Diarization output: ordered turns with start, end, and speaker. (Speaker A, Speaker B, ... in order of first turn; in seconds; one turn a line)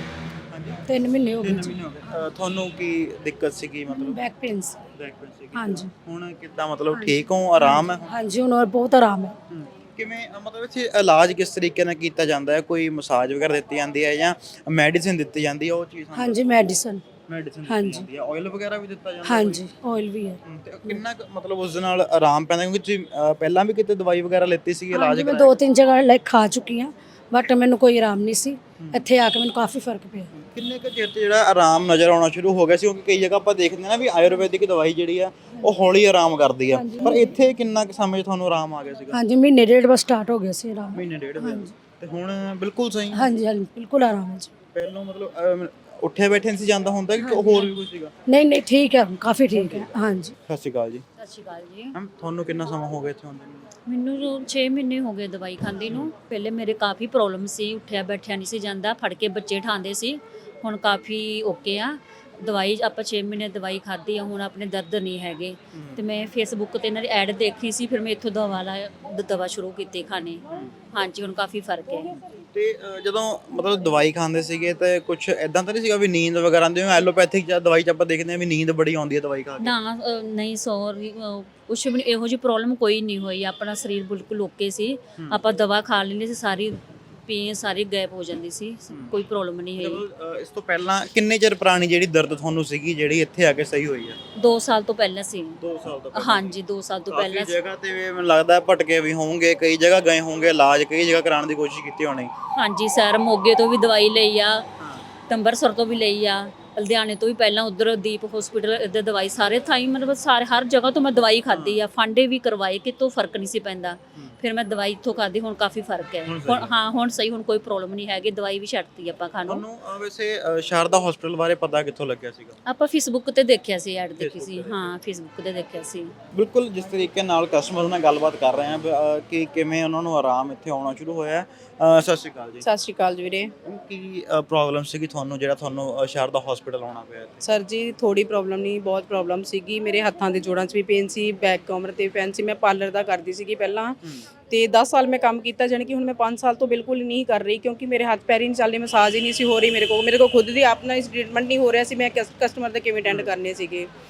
Speaker A: 0.5-0.8
Speaker B: 0.9-1.7
Speaker A: 1.3-4.2
Speaker B: 4.0-4.6
Speaker A: 5.0-8.2
Speaker B: 5.6-5.9
Speaker B: 6.9-7.2
Speaker B: 7.7-9.3
Speaker A: 9.5-16.6
Speaker B: 16.2-17.0
Speaker A: 17.3-19.7
Speaker B: 17.7-18.1
Speaker B: 19.3-21.0
Speaker A: 20.4-25.6
Speaker B: 24.9-30.3
Speaker A: 28.8-29.1
Speaker A: 30.3-39.2
Speaker B: 36.7-37.3
Speaker B: 39.1-41.7
Speaker A: 40.9-43.3
Speaker B: 43.2-44.4
Speaker A: 44.7-48.1
Speaker B: 47.2-47.7
Speaker B: 48.3-50.3
Speaker A: 49.6-49.8
Speaker A: 50.5-51.0
Speaker C: 51.2-51.9
Speaker A: 52.0-53.6
Speaker C: 53.9-72.2
Speaker A: 65.8-66.0
Speaker A: 72.5-79.8
Speaker C: 79.6-90.0
Speaker A: 88.9-89.2
Speaker A: 89.8-94.2
Speaker C: 94.4-95.6
Speaker A: 95.6-96.6
Speaker C: 96.1-97.6
Speaker A: 97.1-102.3
Speaker C: 102.6-104.7
Speaker A: 104.8-105.0
Speaker C: 105.3-119.6
Speaker A: 111.5-111.8
Speaker A: 116.3-116.7
Speaker A: 119.5-122.6
Speaker C: 122.7-126.1
Speaker A: 124.2-124.9
Speaker A: 126.3-132.6
Speaker D: 132.6-133.5
Speaker A: 133.7-137.4
Speaker D: 137.4-144.0
Speaker D: 144.5-153.9
Speaker A: 153.1-153.3